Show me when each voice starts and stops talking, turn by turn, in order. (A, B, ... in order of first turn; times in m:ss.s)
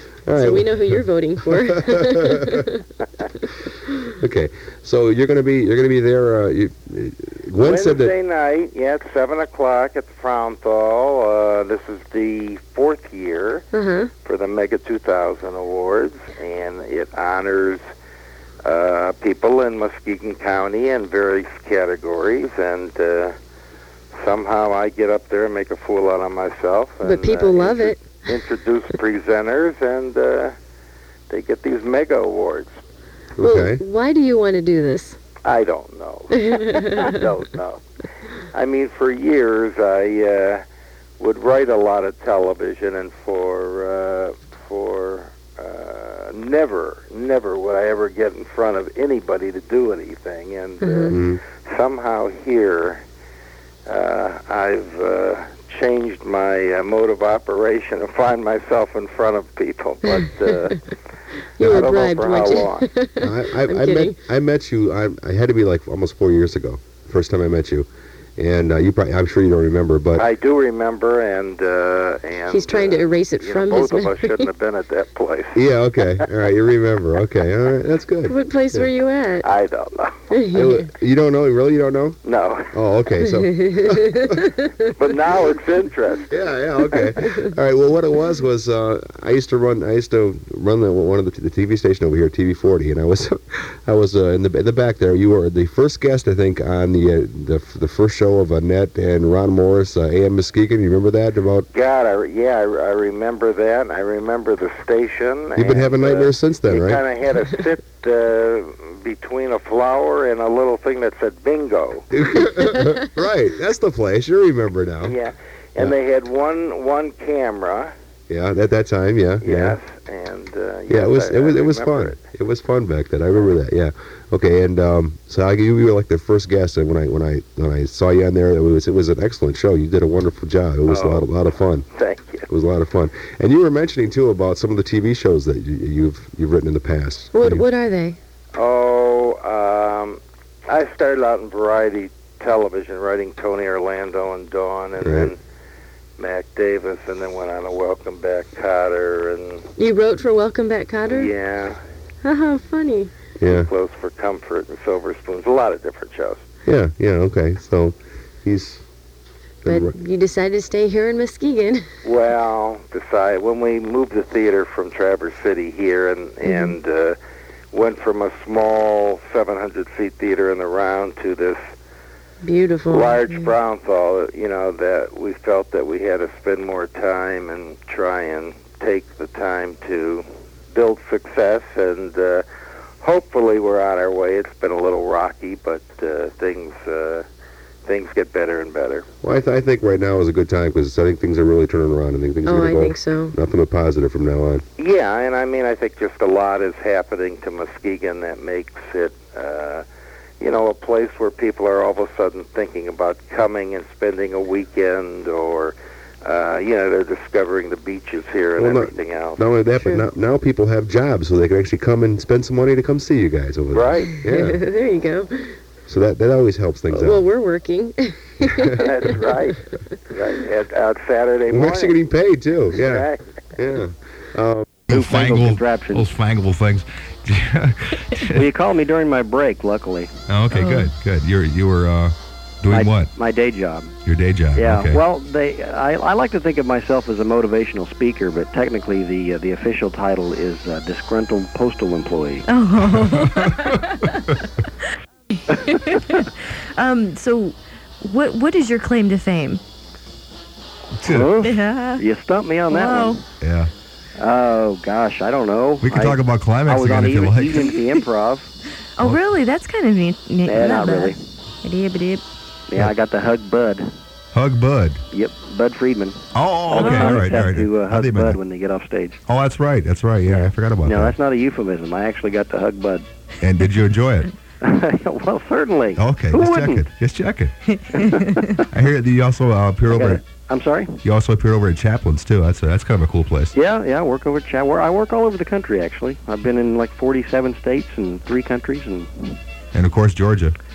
0:00.3-0:02.5 A
0:00.4-0:02.8 B
0:04.2-0:08.1 A
0:07.6-0:13.7 C
0:13.7-0:14.1 B
0:14.2-0:17.8 C
0:18.6-0:23.4 C
0:24.1-0:30.6 C
0:27.0-0:28.4 B
0:31.3-0:32.8 C
0:33.4-0:33.8 A
0:33.4-0:35.2 B
0:35.4-0:37.8 C
0:36.3-0:37.3 B
0:38.5-0:40.6 C
0:41.2-0:53.0 C
0:50.8-0:51.1 B
0:51.1-0:51.4 A
0:53.9-1:00.8 C
1:00.1-1:00.8 B
1:01.6-1:02.9 C
1:01.6-1:04.2 B
1:03.2-1:10.3 A
1:10.1-1:15.6 C
1:12.5-1:14.5 B
1:15.5-1:18.9 A
1:18.3-1:19.5 B
1:19.4-1:20.2 C
1:20.3-1:20.9 B
1:20.5-1:22.2 A
1:22.2-1:22.8 C
1:22.7-1:24.6 A
1:23.2-1:24.9 B
1:25.0-1:26.3 C
1:26.3-1:41.7 A
1:27.0-1:27.5 B
1:41.7-1:52.1 C
1:45.6-1:47.0 A
1:52.1-1:55.2 A
1:55.0-1:58.0 C
1:58.3-1:59.8 A
1:59.4-2:02.3 C
2:00.9-2:11.9 A
2:10.8-2:11.3 C
2:11.9-2:12.5 C
2:12.5-2:17.7 A
2:17.3-2:18.2 B
2:18.5-2:25.4 C
2:25.0-2:25.3 A
2:26.2-2:29.7 C
2:29.8-2:31.3 B
2:31.1-2:31.8 C
2:32.2-2:33.1 B
2:33.4-2:33.7 A
2:33.5-2:36.5 C
2:36.6-2:38.8 A
2:39.6-2:40.0 A
2:39.7-2:41.9 B
2:42.0-2:47.2 C
2:46.4-2:46.8 B
2:47.7-2:51.7 C
2:52.4-2:53.5 B
2:52.9-3:02.5 C
3:03.0-3:07.3 C
3:07.8-3:09.1 C
3:09.2-3:14.6 A
3:12.4-3:13.3 B
3:14.8-3:19.9 C
3:20.4-3:29.4 C
3:28.6-3:34.6 A
3:29.8-3:30.0 B
3:33.7-3:34.2 C
3:34.3-3:35.6 B
3:35.9-3:37.3 A
3:36.9-3:39.1 B
3:38.7-3:39.1 A
3:38.8-3:42.0 C
3:41.5-3:44.8 A
3:42.7-3:43.2 C
3:44.9-3:46.1 D
3:44.9-3:48.5 E
3:48.3-3:50.1 D
3:50.3-3:53.1 E
3:50.5-3:50.9 F
3:52.7-3:54.0 D
3:54.0-3:55.0 E
3:54.5-4:02.5 D
4:02.5-4:04.1 F
4:03.1-4:03.5 E
4:05.4-4:09.6 F
4:11.0-4:11.4 E
4:11.0-4:13.2 D
4:11.4-4:12.0 F
4:12.7-4:13.2 F
4:13.4-4:13.7 E
4:14.2-4:18.5 D
4:15.8-4:17.7 E
4:19.0-4:22.2 F
4:20.4-4:21.2 D
4:22.7-4:23.9 D
4:24.3-4:25.0 E
4:25.1-4:29.2 D
4:26.3-4:28.4 E
4:26.7-4:27.4 F
4:29.3-4:31.2 E
4:30.3-4:33.1 D
4:33.4-4:34.3 E
4:34.6-4:36.9 D
4:36.0-4:37.5 E
4:37.8-4:38.5 F
4:37.9-4:38.6 D
4:38.7-4:40.2 E
4:39.9-4:41.0 D
4:41.0-4:43.5 E
4:43.5-4:49.4 D
4:49.7-4:50.6 E